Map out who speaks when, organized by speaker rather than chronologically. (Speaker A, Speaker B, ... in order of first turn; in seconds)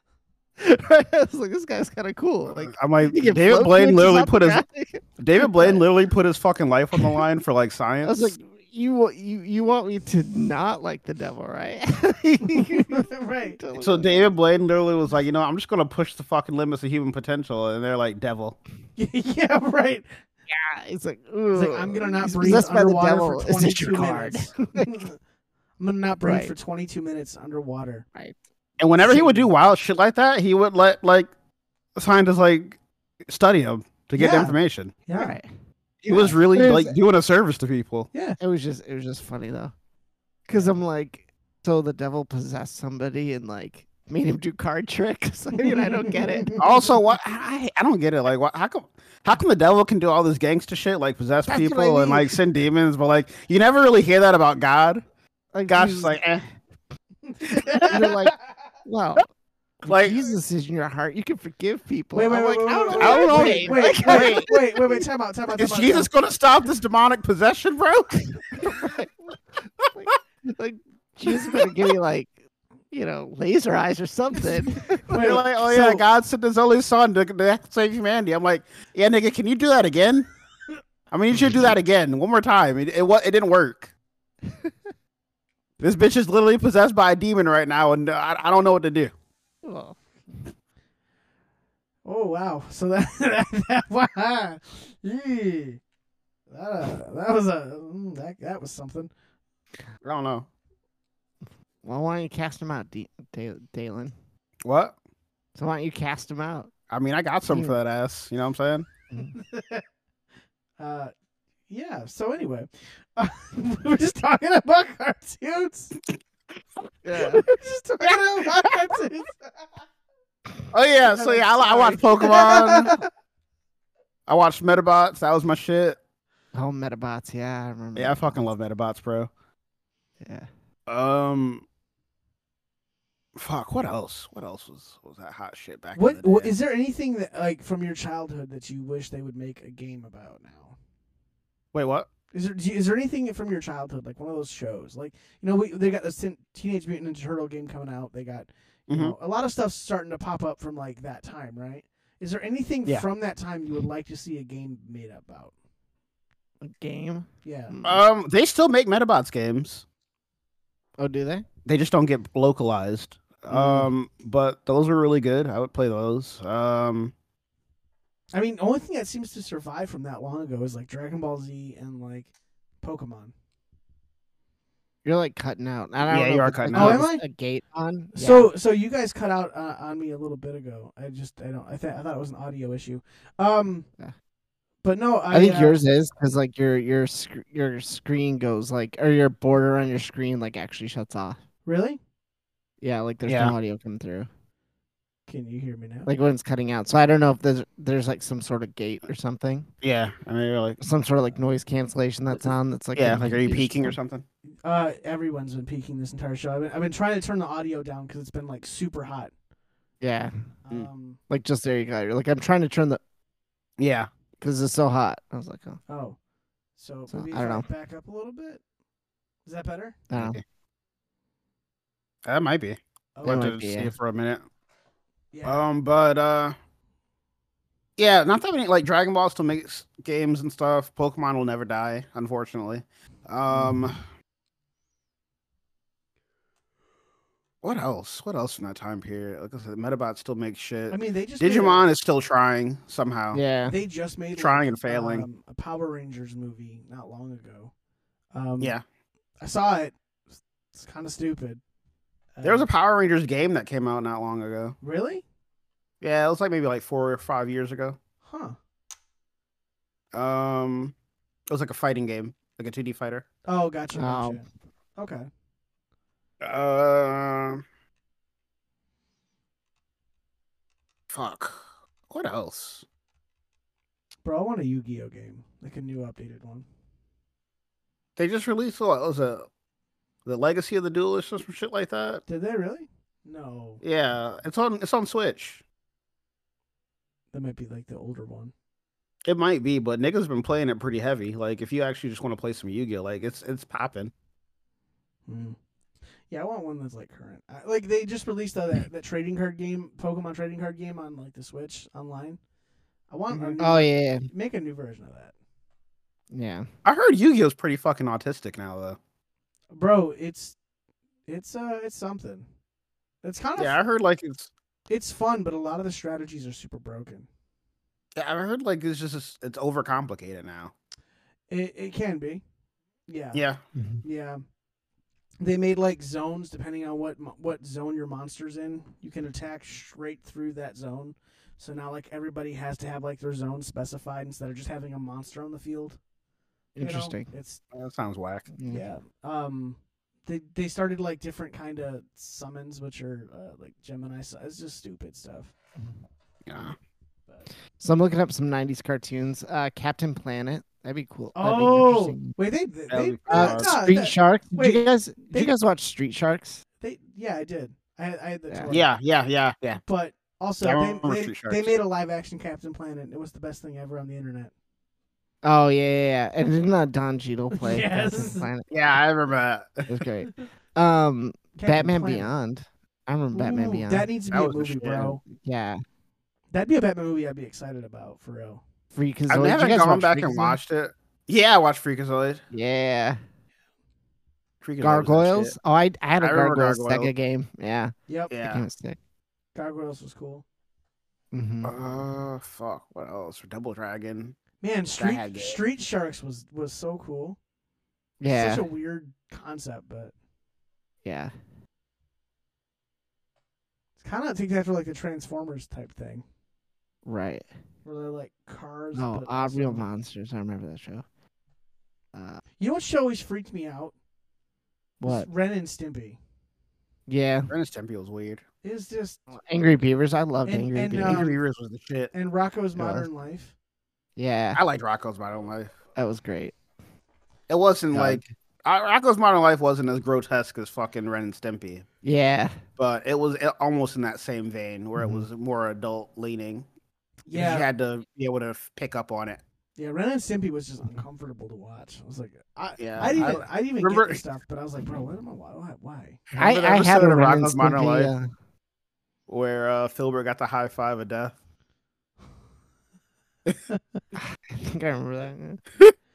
Speaker A: 0.6-5.8, 6.9-7.2, 8.0-14.3, 20.5-24.9, 26.2-26.5, 35.1-35.5, 36.1-37.0, 38.4-39.7, 40.5-46.6, 51.5-52.4, 55.5-56.2, 57.9-59.2, 59.8-64.9, 68.5-72.3, 72.9-75.3, 81.4-81.7, 84.5-84.7, 89.6-90.0, 101.8-104.1, 105.5-106.7, 107.5-107.8, 117.0-117.4, 126.5-128.4, 130.2-130.5, 156.6-158.0, 161.0-161.4, 163.5-163.9, 175.0-178.5, 185.3-191.4, 192.8-194.3, 196.1-199.7, 200.8-204.0, 210.0-210.3, 211.3-213.0, 214.4-215.8, 217.1-217.7, 220.1-220.4, 223.2-223.9, 233.5-233.8, 243.3-243.7, 263.9-264.4, 303.6-304.3, 306.3-306.7, 323.7-324.0, 336.7-337.3, 338.5-338.8, 347.8-352.3, 353.3-356.6, 365.4-368.7, 369.9-374.1, 375.3-375.8, 378.9-380.6, 382.5-383.2, 384.8-389.0, 391.3-391.8, 398.2-398.6, 401.0-401.3, 407.0-407.5, 408.9-411.0, 412.1-412.4, 415.0-415.3, 417.1-417.5, 419.3-421.2, 422.8-423.1, 424.1-424.6, 425.9-426.6, 427.9-428.2, 432.0-432.6, 435.0-435.2, 446.4-448.3, 454.1-455.7
Speaker B: 2.6-4.6, 5.2-8.3, 13.7-18.6, 28.8-31.3, 31.9-34.9, 36.0-38.1, 46.5-55.0, 55.7-56.4, 57.5-58.1, 59.9-60.2, 63.0-64.5, 65.6-68.7, 71.4-71.7, 75.1-80.3, 81.1-83.9, 85.8-89.1, 100.0-100.5, 104.6-104.9, 106.9-108.9, 120.7-123.0, 124.3-126.0, 127.9-129.3, 130.9-131.6, 133.3-136.5, 141.7-142.1, 148.9-149.1, 157.8-159.8, 161.7-167.1, 176.0-177.0, 193.2-193.5, 199.8-200.8, 202.9-204.2, 213.8-214.1, 220.1-220.4, 222.2-224.4, 225.4-226.6, 228.0-234.0, 237.6-243.4, 244.3-245.2, 252.4-254.7, 256.0-258.0, 260.1-260.9, 261.5-263.2, 266.4-267.6, 271.1-272.8, 278.2-279.5, 280.2-282.2, 283.8-285.6, 289.2-294.1, 303.3-303.6, 306.8-309.0, 313.6-314.5, 318.1-320.7, 323.3-323.6, 337.7-338.5, 346.4-346.7, 352.9-353.7, 358.7-359.8, 360.6-361.7, 368.7-370.0, 374.3-375.2, 379.3-382.4, 384.6-385.5, 386.2-387.1, 388.3-388.6, 391.6-394.4, 394.9-395.6, 417.5-418.4, 421.0-422.1, 424.5-425.7, 427.5-431.8, 432.8-436.6, 437.3-439.4, 442.8-444.2, 446.3-448.1, 449.3-451.4
Speaker C: 12.5-13.6, 19.0-20.1, 21.5-25.2, 25.8-28.0, 29.0-29.5, 34.2-34.5, 35.0-35.4, 45.6-46.6, 57.2-58.2, 62.1-66.1, 75.1-76.0, 92.0-95.8, 96.5-99.1, 109.3-109.8, 110.8-111.1, 111.7-116.0, 117.2-119.6, 121.0-123.0, 135.9-140.8, 142.3-155.5, 157.4-157.8, 168.3-172.3, 172.8-173.3, 176.7-177.2, 178.1-183.8, 184.8-185.8, 191.6-192.0, 195.3-196.1, 204.6-209.3, 210.7-211.2, 215.9-216.2, 216.8-218.6, 219.4-220.0, 223.2-223.5, 225.3-225.6, 240.9-241.8, 243.7-247.7, 248.3-248.8, 249.4-249.9, 250.7-251.6, 252.3-252.7, 254.8-255.2, 258.2-258.6, 263.5-265.3, 274.2-276.6, 282.3-283.8, 287.3-288.5, 295.3-295.6, 296.3-302.4, 303.1-305.3, 309.7-310.6, 311.3-312.4, 313.2-313.8, 314.9-317.3, 321.5-322.4, 323.1-323.4, 324.0-324.4, 325.4-336.0, 336.8-337.6, 338.7-345.5, 351.3-355.5, 356.8-358.9, 359.9-364.5, 367.5-368.5, 371.6-372.3, 373.3-375.2, 376.5-378.6, 388.1-388.3, 389.5-390.4, 394.6-397.4, 398.3-400.1, 404.0-406.2, 407.8-409.8, 412.6-413.9, 415.0-416.2, 418.6-419.2, 420.4-421.4, 422.1-423.5, 437.3-437.7, 439.8-446.2